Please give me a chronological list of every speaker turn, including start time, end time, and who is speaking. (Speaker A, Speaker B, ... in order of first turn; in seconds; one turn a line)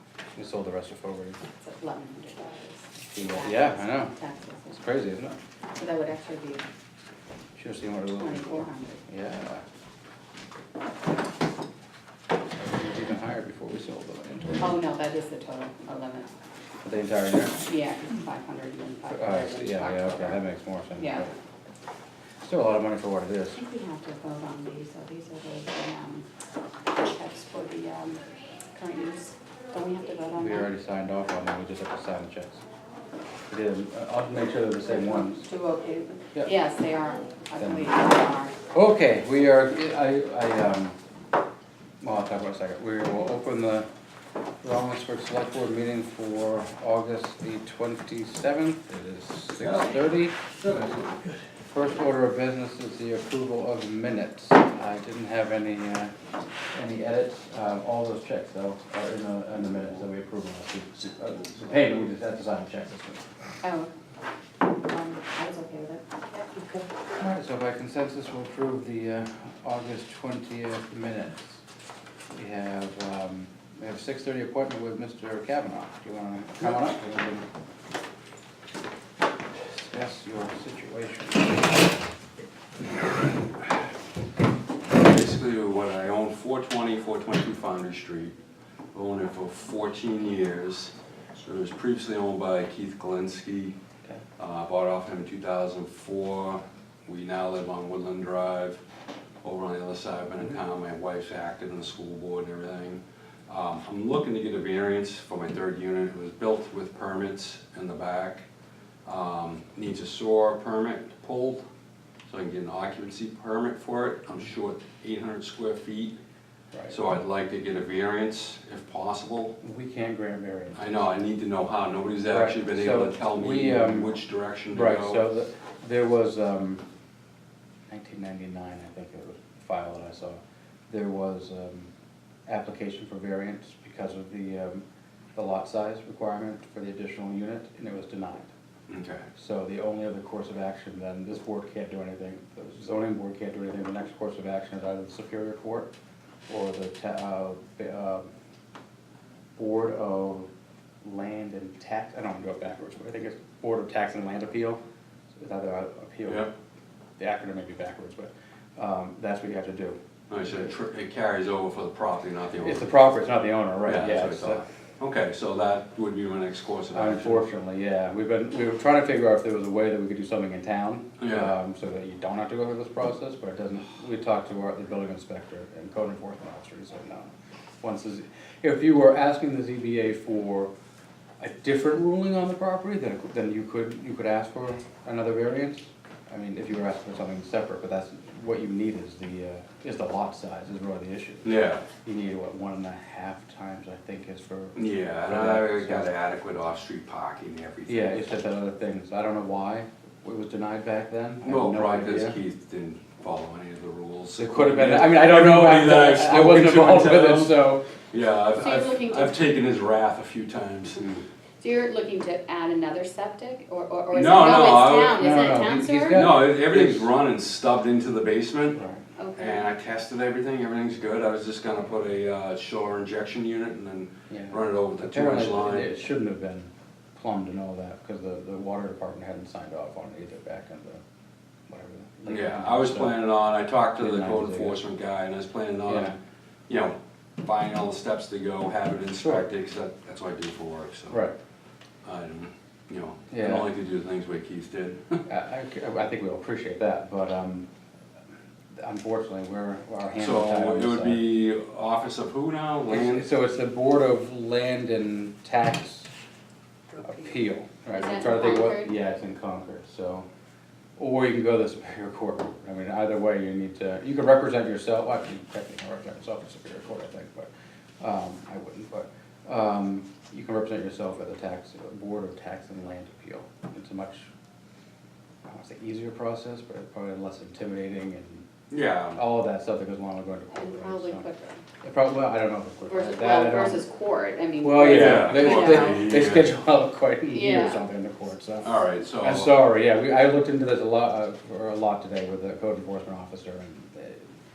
Speaker A: 0.3-1.4
Speaker B: 1.6-4.8
Speaker A: 3.1-4.1
Speaker A: 4.7-5.4
Speaker B: 5.8-6.7
Speaker A: 7.6-9.6
Speaker B: 8.2-9.0
Speaker A: 12.6-14.7
Speaker B: 14.6-16.3
Speaker A: 16.8-17.6
Speaker B: 17.6-20.4
Speaker A: 19.1-21.3
Speaker B: 21.0-21.3
Speaker A: 22.4-23.6
Speaker B: 23.5-26.3
Speaker B: 26.9-28.2
Speaker B: 28.7-30.7
Speaker A: 30.4-32.6
Speaker A: 33.5-35.4
Speaker B: 34.9-38.6
Speaker A: 37.6-37.9
Speaker A: 38.7-41.0
Speaker A: 42.0-43.9
Speaker A: 44.6-50.4
Speaker C: 49.6-51.5
Speaker A: 51.7-56.1
Speaker A: 56.7-63.2
Speaker B: 63.6-63.9
Speaker B: 64.8-66.9
Speaker A: 67.2-71.6
Speaker A: 72.3-77.5
Speaker A: 79.6-81.8
Speaker C: 84.9-88.4
Speaker C: 88.9-93.8
Speaker C: 94.4-98.8
Speaker C: 99.4-108.4
Speaker C: 109.0-111.6
Speaker C: 112.3-116.2
Speaker A: 116.7-117.0
Speaker C: 116.9-119.6
Speaker A: 119.6-121.0
Speaker C: 120.8-125.2
Speaker A: 122.3-124.2
Speaker A: 124.7-126.8
Speaker A: 127.9-131.9
Speaker A: 132.5-134.8
Speaker A: 135.3-138.5
Speaker C: 138.9-139.3
Speaker A: 139.3-145.9
Speaker A: 146.5-148.3
Speaker A: 149.6-150.5
Speaker A: 151.0-154.8
Speaker A: 155.4-156.5
Speaker A: 157.2-160.7
Speaker C: 160.3-162.9
Speaker A: 162.6-164.7
Speaker C: 163.8-167.5
Speaker A: 166.9-180.7
Speaker C: 171.2-171.5
Speaker A: 181.4-196.1
Speaker C: 191.4-191.8
Speaker C: 194.8-198.4
Speaker A: 197.9-202.4
Speaker C: 201.4-211.1
Speaker A: 204.4-207.8
Speaker B: 208.6-209.4
Speaker B: 211.6-216.2
Speaker C: 214.1-215.2
Speaker A: 215.2-217.1
Speaker C: 216.1-218.8
Speaker A: 218.7-219.0
Speaker B: 219.2-219.6
Speaker C: 219.4-225.9
Speaker A: 224.3-231.0
Speaker A: 231.7-233.3
Speaker C: 232.3-236.2
Speaker A: 234.0-234.8
Speaker A: 235.8-236.2
Speaker C: 236.7-241.2
Speaker A: 239.2-239.5
Speaker A: 241.1-241.3
Speaker C: 242.0-245.2
Speaker A: 243.3-243.7
Speaker A: 245.3-247.7
Speaker A: 248.8-251.3
Speaker C: 250.2-253.3
Speaker A: 252.9-256.1
Speaker A: 257.0-260.3
Speaker B: 257.9-258.9
Speaker A: 261.0-274.3
Speaker A: 275.4-278.5
Speaker C: 278.7-279.2
Speaker A: 279.1-281.2
Speaker B: 280.5-281.6
Speaker A: 281.8-283.8
Speaker B: 282.9-286.1
Speaker A: 284.6-294.3
Speaker C: 284.8-286.5
Speaker B: 287.2-287.8
Speaker C: 288.6-289.6